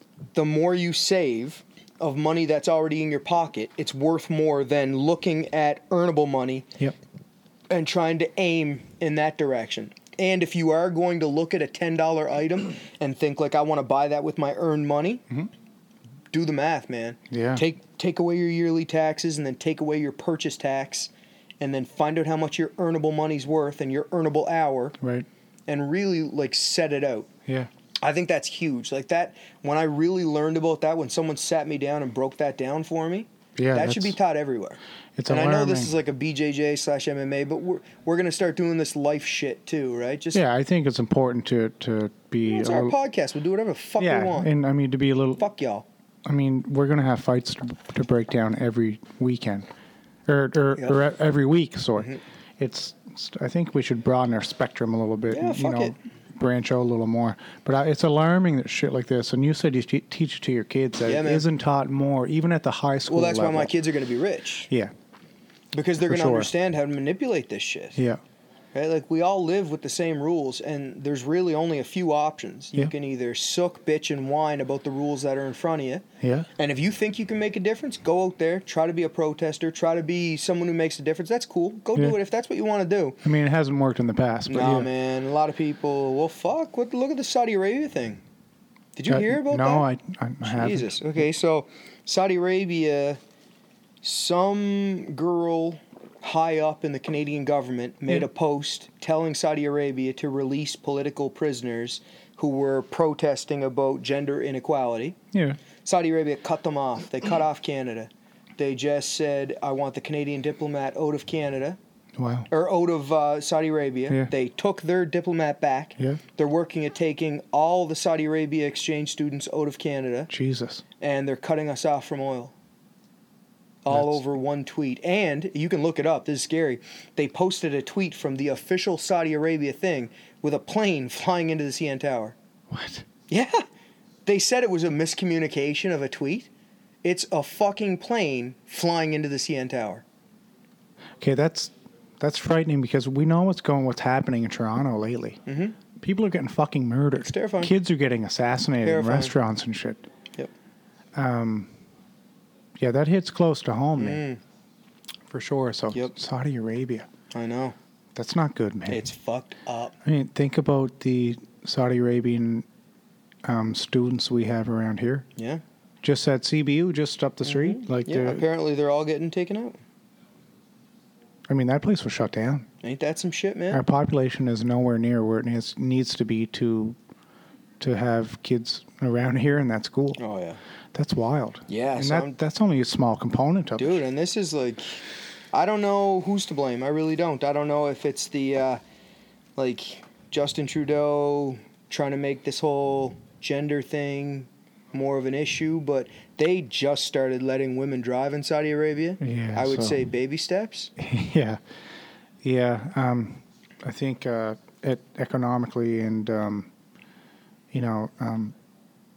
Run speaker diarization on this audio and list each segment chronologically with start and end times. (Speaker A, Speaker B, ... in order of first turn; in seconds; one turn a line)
Speaker A: 0.3-6.7
Speaker A: 7.7-15.2
Speaker A: 16.3-25.0
Speaker B: 17.3-17.6
Speaker B: 25.0-25.3
Speaker A: 25.7-27.3
Speaker A: 28.0-40.4
Speaker B: 33.6-34.2
Speaker B: 35.2-35.9
Speaker B: 40.3-43.0
Speaker A: 42.5-44.5
Speaker B: 44.0-45.4
Speaker A: 45.4-45.9
Speaker B: 46.2-49.7
Speaker B: 50.3-63.7
Speaker A: 55.3-56.0
Speaker A: 61.0-61.5
Speaker A: 63.1-64.7
Speaker A: 65.7-68.0
Speaker B: 66.0-66.5
Speaker A: 68.7-76.0
Speaker B: 76.2-76.5
Speaker A: 76.6-83.2
Speaker B: 83.2-84.9
Speaker A: 84.5-88.2
Speaker A: 89.0-89.9
Speaker B: 89.1-91.0
Speaker A: 90.4-93.2
Speaker A: 94.0-105.2
Speaker B: 105.3-105.6
Speaker A: 105.8-111.8
Speaker B: 112.2-112.5
Speaker A: 112.5-120.3
Speaker B: 120.3-120.8
Speaker A: 121.0-122.5
Speaker A: 123.8-132.4
Speaker B: 123.9-124.2
Speaker B: 132.7-133.1
Speaker A: 133.3-133.6
Speaker A: 134.3-136.5
Speaker A: 137.0-140.1
Speaker B: 141.2-145.4
Speaker A: 145.5-145.8
Speaker B: 146.0-150.0
Speaker A: 147.2-147.7
Speaker A: 148.8-149.3
Speaker B: 151.2-151.7
Speaker B: 152.8-154.2
Speaker A: 154.0-154.4
Speaker B: 155.3-157.1
Speaker A: 157.3-157.8
Speaker B: 158.2-159.1
Speaker A: 158.9-159.9
Speaker B: 160.1-162.7
Speaker B: 163.5-165.3
Speaker A: 165.4-165.6
Speaker B: 166.0-168.4
Speaker A: 167.4-169.8
Speaker B: 171.5-172.7
Speaker A: 172.8-173.8
Speaker B: 173.7-177.0
Speaker B: 177.8-180.2
Speaker A: 180.2-180.6
Speaker B: 180.9-184.0
Speaker A: 181.7-182.4
Speaker A: 183.8-188.8
Speaker A: 189.6-200.9
Speaker B: 199.2-200.0
Speaker B: 201.0-201.6
Speaker B: 202.4-206.7
Speaker B: 207.7-208.5